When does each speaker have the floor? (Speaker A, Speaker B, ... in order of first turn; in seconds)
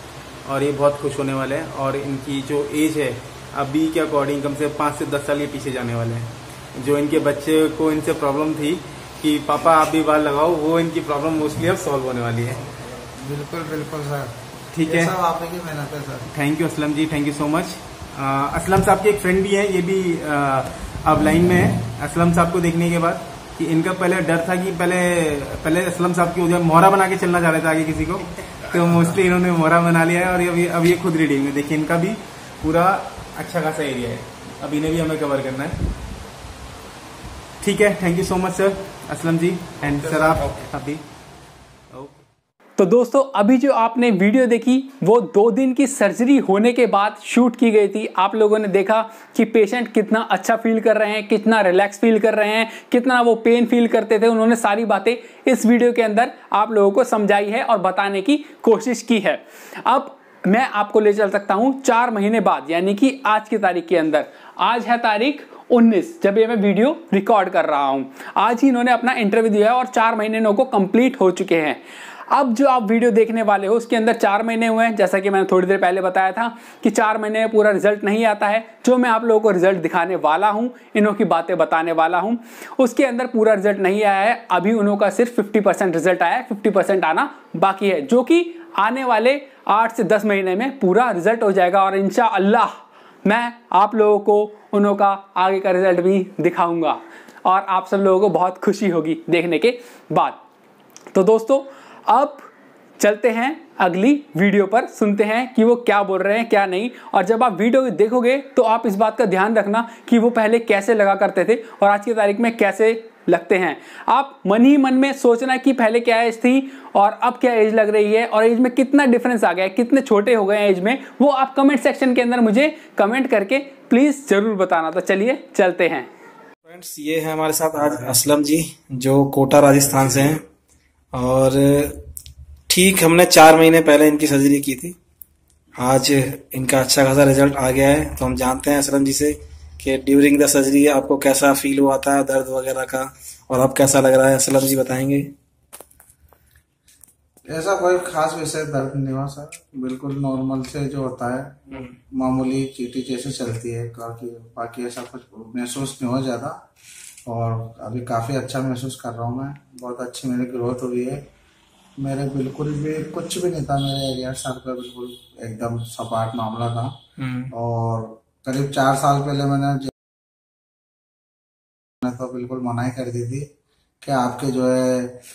Speaker A: 0.5-12.6, 14.7-15.1, 16.3-35.8, 37.6-41.0, 41.9-42.2
Speaker B: 12.5-16.3, 147.5-156.6, 157.3-161.3, 162.0-167.0, 167.5-169.9, 172.0-173.5, 174.0-175.2
Speaker C: 42.8-100.4, 101.1-126.1
Speaker D: 126.7-130.4, 131.1-132.0, 132.7-134.9, 135.8-145.3, 167.2-167.5